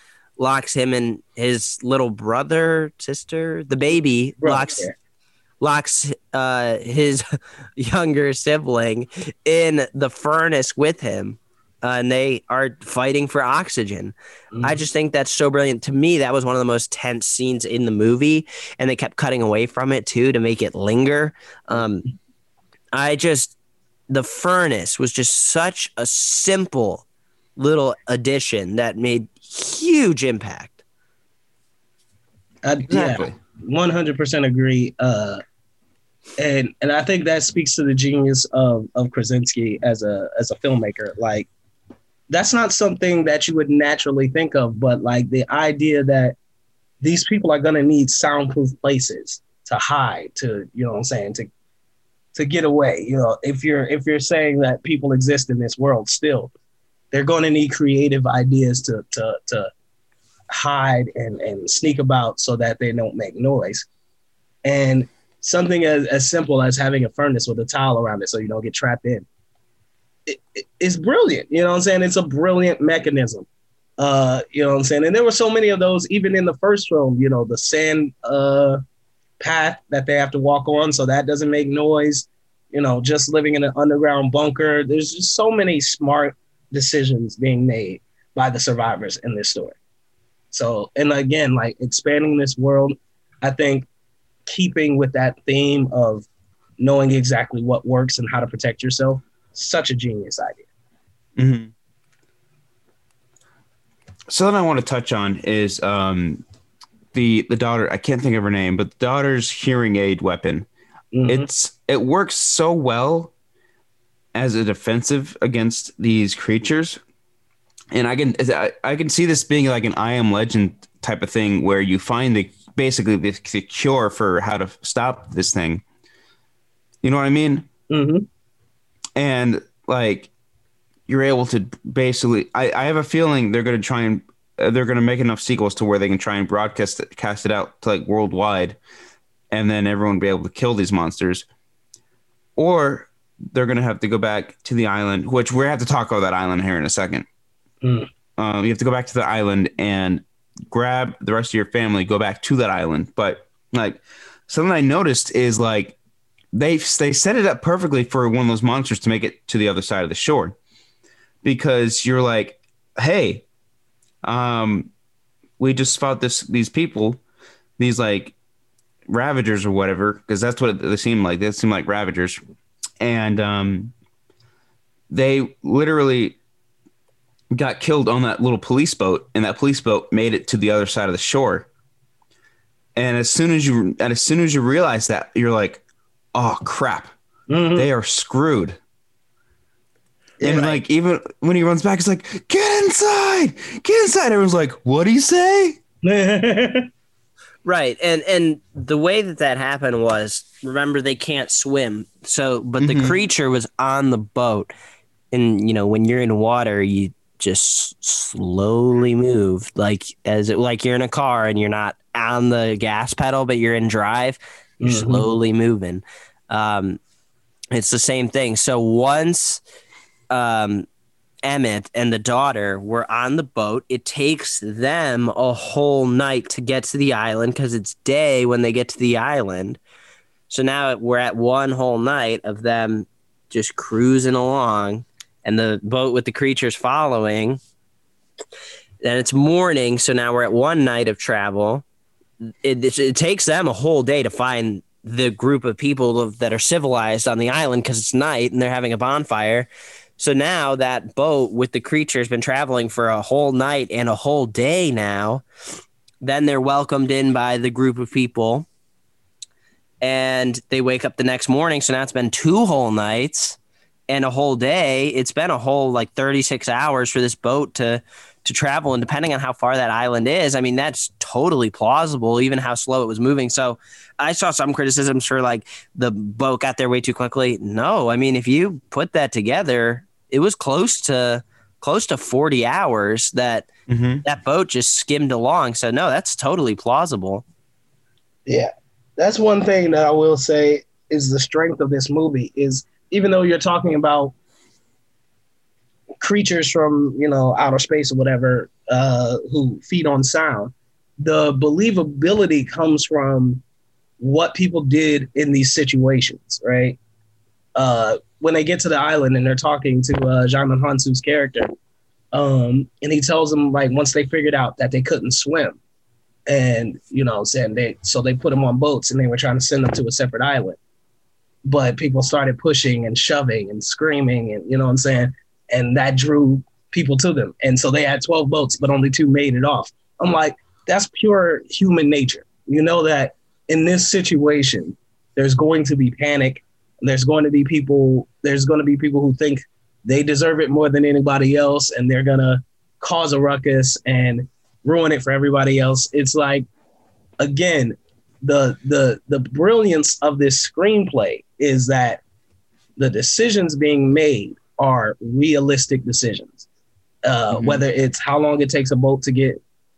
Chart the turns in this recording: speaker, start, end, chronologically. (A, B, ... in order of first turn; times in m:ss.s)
0:00.4-0:04.9 A
0:04.4-0:04.9 B
0:05.6-0:07.2 A
0:07.8-0:22.0 A
0:14.5-0:14.8 B
0:22.9-0:23.6 A
0:24.1-0:27.0 A
0:27.6-0:30.8 A
0:32.6-0:35.4 B
0:32.9-0:33.4 C
0:36.4-0:41.5 B
0:42.3-0:46.3 B
0:47.0-0:51.5 B
0:52.3-0:56.5 B
0:57.1-0:59.7 B
1:00.5-1:03.9 B
1:04.6-1:09.2 B
1:10.3-1:13.4 B
1:14.0-1:18.8 B
1:19.4-1:29.8 B
1:30.5-1:33.9 B
1:34.5-1:36.2 B
1:36.8-1:40.6 B
1:41.4-1:41.7 C
1:44.3-1:46.4 C
1:47.1-1:50.7 C
1:51.1-1:51.5 B
1:51.3-1:53.3 C
1:54.3-1:57.0 C
1:57.9-2:05.8 C
2:07.0-2:07.7 C
2:07.9-2:08.2 B
2:09.2-2:10.3 C
2:11.1-2:18.8 C
2:19.5-2:21.4 C
2:22.6-2:27.2 C
2:27.8-2:28.1 B
2:28.4-2:36.0 C
2:36.5-2:40.6 C
2:41.4-2:43.4 C
2:44.2-2:44.9 C
2:45.6-2:47.2 C
2:47.8-2:48.3 C
2:49.1-2:52.4 C
2:53.0-2:53.9 C
2:55.1-2:56.4 C
2:57.5-3:01.7 C
3:03.0-3:05.8 C
3:06.3-3:07.1 C
3:07.5-3:07.9 B
3:07.8-3:08.8 C
3:10.4-3:10.8 B
3:10.4-3:15.8 C
3:16.0-3:16.9 B
3:17.6-3:24.7 A
3:22.8-3:23.2 C
3:25.3-3:37.0 A
3:34.8-3:35.3 B
3:37.7-3:39.6 A
3:40.3-3:40.9 A
3:41.4-3:49.8 A
3:50.5-3:57.6 A
3:59.0-4:01.8 A
4:02.6-4:15.4 A
4:16.2-4:18.7 A
4:20.0-4:23.6 A
4:24.1-4:43.7 A
4:43.9-4:44.2 C
4:44.2-4:47.4 A
4:48.4-4:54.3 B
4:56.2-5:03.6 B
5:04.2-5:07.0 B
5:07.7-5:11.7 B
5:12.3-5:15.8 B
5:16.5-5:20.8 B
5:21.6-5:46.6 B
5:47.4-5:52.2 B
5:53.0-5:56.6 B
5:57.2-5:59.6 B
5:57.5-5:57.8 C